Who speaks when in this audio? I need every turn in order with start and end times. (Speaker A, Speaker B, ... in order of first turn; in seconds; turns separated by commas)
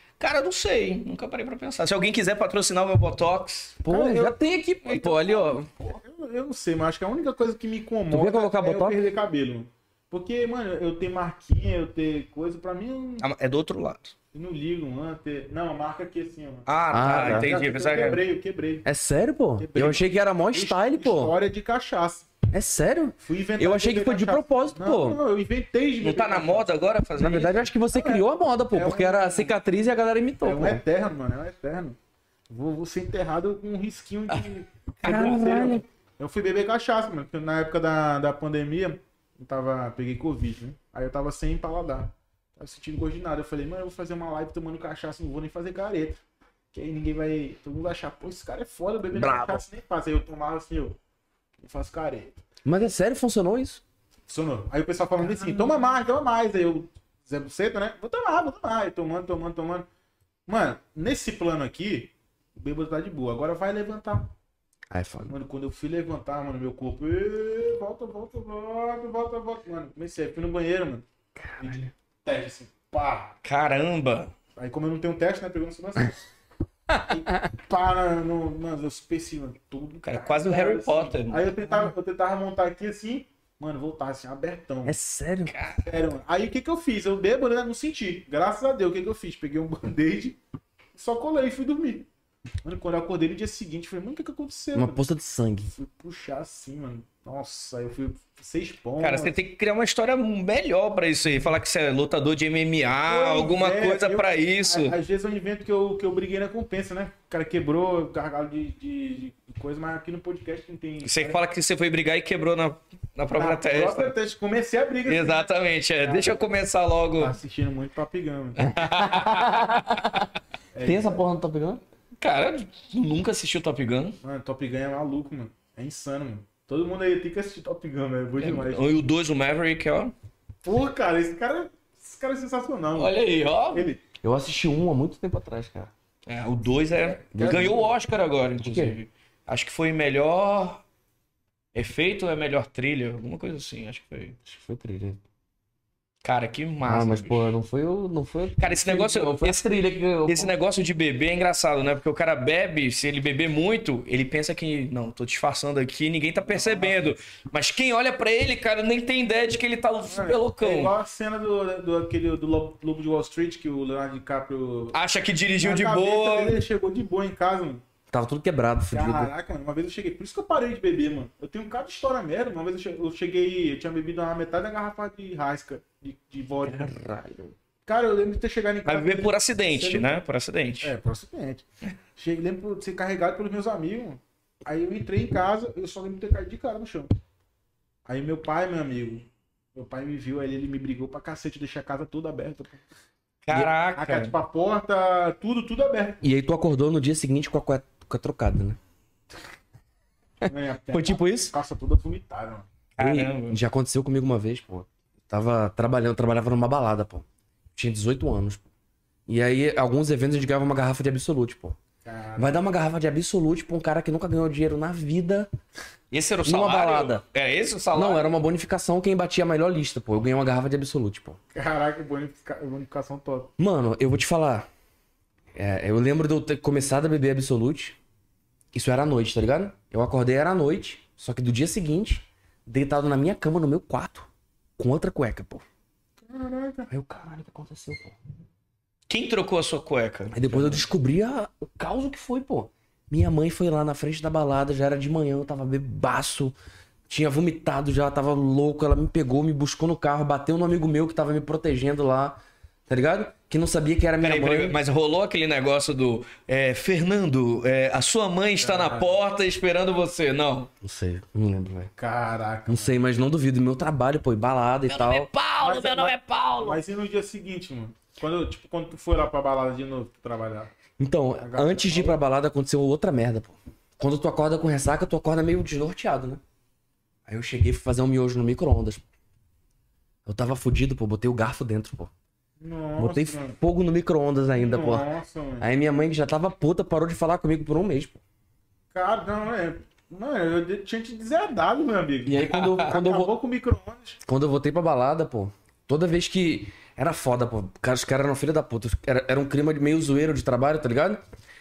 Speaker A: 0.2-3.8, Speaker B: 3.8-5.7, Speaker C: 3.9-4.4, Speaker A: 4.9-5.2, Speaker C: 4.9-13.3, Speaker B: 8.1-9.1, Speaker A: 13.2-14.1, Speaker C: 14.3-18.9, Speaker A: 16.7-18.2, Speaker B: 16.9-17.5, Speaker B: 18.8-21.3, Speaker C: 19.6-22.3, Speaker B: 22.5-25.2, Speaker C: 23.2-26.7, Speaker A: 26.0-27.7, Speaker B: 27.2-30.8, Speaker C: 27.9-29.6, Speaker C: 30.4-32.0, Speaker C: 32.5-46.2, Speaker B: 35.0-35.8, Speaker C: 46.7-51.0, Speaker B: 49.1-49.6, Speaker C: 51.6-52.4, Speaker B: 52.6-53.8, Speaker C: 54.3-59.9, Speaker C: 60.5-64.3, Speaker B: 64.9-65.3, Speaker C: 65.3-71.0, Speaker C: 71.6-73.3, Speaker B: 71.6-71.8, Speaker A: 73.4-74.3, Speaker C: 74.5-76.2, Speaker C: 77.0-85.0, Speaker A: 80.0-81.5, Speaker B: 84.8-85.5, Speaker A: 85.5-85.8, Speaker C: 85.8-90.4, Speaker C: 90.9-92.1, Speaker C: 92.6-95.0, Speaker B: 94.7-95.7, Speaker C: 95.7-99.3, Speaker A: 99.0-105.0, Speaker C: 103.1-111.4, Speaker A: 111.0-114.1, Speaker C: 113.3-116.5, Speaker A: 115.0-117.4, Speaker C: 117.2-119.1, Speaker A: 118.6-120.0, Speaker B: 119.1-120.3, Speaker C: 120.7-121.2, Speaker B: 120.8-121.8, Speaker A: 122.2-124.2, Speaker C: 124.2-129.1, Speaker A: 128.4-130.1, Speaker C: 130.6-133.2, Speaker A: 132.9-133.9, Speaker C: 133.7-134.0, Speaker B: 134.2-135.9, Speaker A: 136.2-140.8, Speaker C: 137.0-137.9, Speaker B: 137.3-137.8, Speaker B: 138.6-139.0, Speaker A: 141.7-144.3, Speaker B: 144.4-145.2, Speaker A: 146.2-147.5, Speaker B: 146.8-150.5, Speaker A: 148.6-149.6, Speaker A: 150.2-160.9, Speaker C: 156.5-157.2, Speaker C: 160.1-165.0, Speaker A: 164.9-166.6, Speaker C: 165.6-167.8, Speaker B: 168.1-169.3, Speaker C: 168.9-177.0, Speaker B: 176.7-177.5, Speaker C: 177.8-180.2, Speaker A: 178.8-180.9, Speaker C: 180.8-181.6, Speaker C: 182.2-187.1, Speaker C: 188.1-192.8, Speaker A: 193.4-194.3, Speaker C: 193.9-196.2, Speaker B: 196.2-198.8, Speaker C: 200.4-202.7, Speaker B: 200.9-201.5, Speaker A: 202.9-203.6, Speaker B: 203.0-208.6, Speaker B: 209.3-211.8, Speaker C: 212.0-212.7, Speaker B: 212.4-215.5, Speaker A: 216.1-218.3, Speaker B: 216.4-217.2, Speaker B: 217.9-221.4, Speaker C: 221.5-223.5, Speaker B: 223.6-224.7, Speaker B: 225.5-228.0, Speaker B: 228.7-235.6, Speaker C: 236.2-236.9, Speaker B: 236.9-238.2, Speaker A: 239.1-240.9, Speaker B: 240.3-246.5, Speaker B: 247.1-254.8, Speaker A: 254.2-260.7, Speaker C: 258.6-259.1, Speaker B: 260.8-261.9, Speaker C: 262.0-262.9, Speaker B: 262.7-265.3, Speaker A: 264.9-266.8, Speaker C: 265.6-270.7, Speaker B: 271.0-276.4, Speaker C: 271.4-272.2, Speaker B: 277.2-279.0, Speaker B: 280.2-282.1, Speaker C: 282.6-283.6, Speaker B: 283.0-285.1, Speaker C: 284.6-285.7, Speaker B: 285.6-288.2, Speaker C: 288.9-294.2, Speaker B: 292.2-293.3, Speaker A: 292.5-292.9, Speaker B: 294.2-301.2